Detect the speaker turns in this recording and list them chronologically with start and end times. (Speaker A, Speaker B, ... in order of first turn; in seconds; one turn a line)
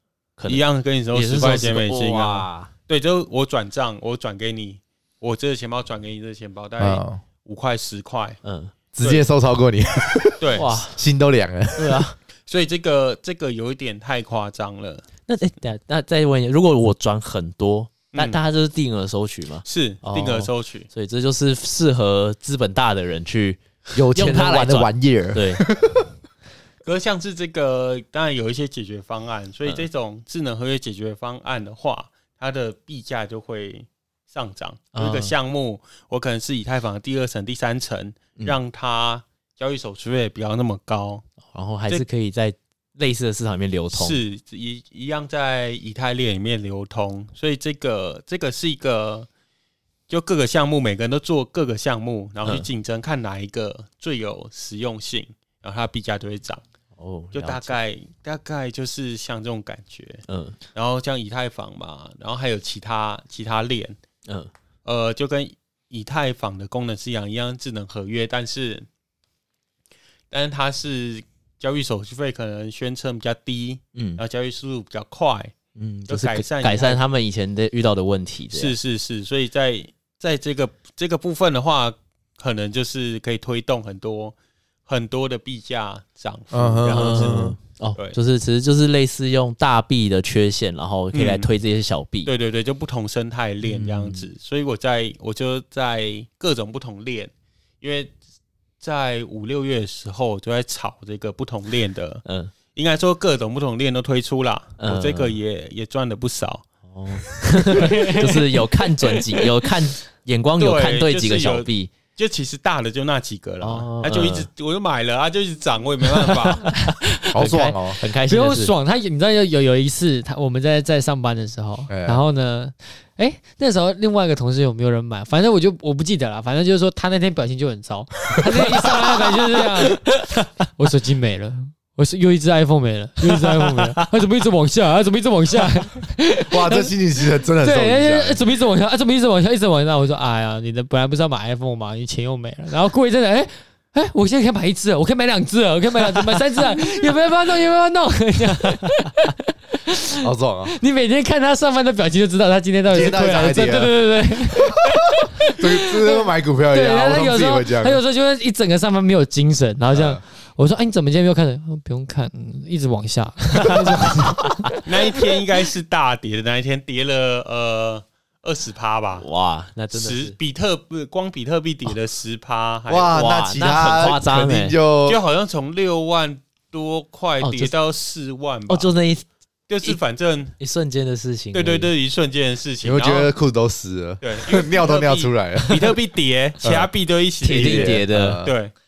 Speaker A: 0.4-2.7
Speaker B: 0.5-8.4
Speaker C: 6.8-7.2
Speaker A: 8.4-8.7
Speaker C: 8.9-12.1
Speaker B: 10.4-10.8
Speaker A: 10.6-11.0
Speaker A: 11.8-12.2
Speaker B: 12.5-15.1
Speaker A: 15.3-23.6
Speaker B: 18.1-18.4
Speaker B: 19.6-20.9
Speaker C: 23.9-26.1
Speaker A: 24.1-25.6
Speaker B: 26.8-41.2
Speaker A: 35.0-35.3
Speaker A: 41.5-44.2
Speaker B: 43.9-49.3
Speaker B: 50.1-56.6
Speaker A: 57.0-57.8
Speaker B: 57.3-64.0
Speaker A: 60.3-60.6
Speaker B: 64.8-68.9
Speaker B: 70.3-75.5
Speaker A: 74.0-74.2
Speaker A: 75.8-78.8
Speaker B: 76.1-77.0
Speaker B: 78.5-84.3
Speaker B: 84.9-88.2
Speaker C: 86.5-87.6
Speaker A: 86.9-92.3
Speaker B: 91.1-91.5
Speaker B: 92.2-98.1
Speaker A: 93.6-94.3
Speaker B: 98.8-106.7
Speaker A: 102.2-102.5
Speaker A: 104.8-105.4
Speaker A: 106.9-111.9
Speaker B: 107.7-108.6
Speaker B: 110.6-116.7
Speaker A: 113.6-114.5
Speaker A: 116.2-118.7
Speaker C: 117.3-118.0
Speaker D: 118.3-130.1
Speaker C: 121.9-122.2
Speaker D: 130.8-136.9
Speaker C: 136.5-138.4
Speaker D: 137.6-149.3
Speaker C: 150.2-150.7
Speaker D: 150.8-164.8
Speaker C: 152.9-154.0
Speaker C: 155.4-158.0
Speaker C: 159.9-160.2
Speaker B: 164.8-169.3
Speaker A: 169.2-170.4
Speaker B: 169.9-173.2
Speaker C: 172.9-175.2
Speaker A: 173.1-174.8
Speaker B: 175.1-178.9
Speaker A: 177.4-177.7
Speaker A: 178.7-179.2
Speaker B: 179.7-180.6
Speaker A: 180.6-181.9
Speaker B: 181.5-183.3
Speaker C: 182.8-186.0
Speaker B: 184.2-188.7
Speaker C: 186.6-186.9
Speaker A: 187.4-188.4
Speaker C: 187.5-188.6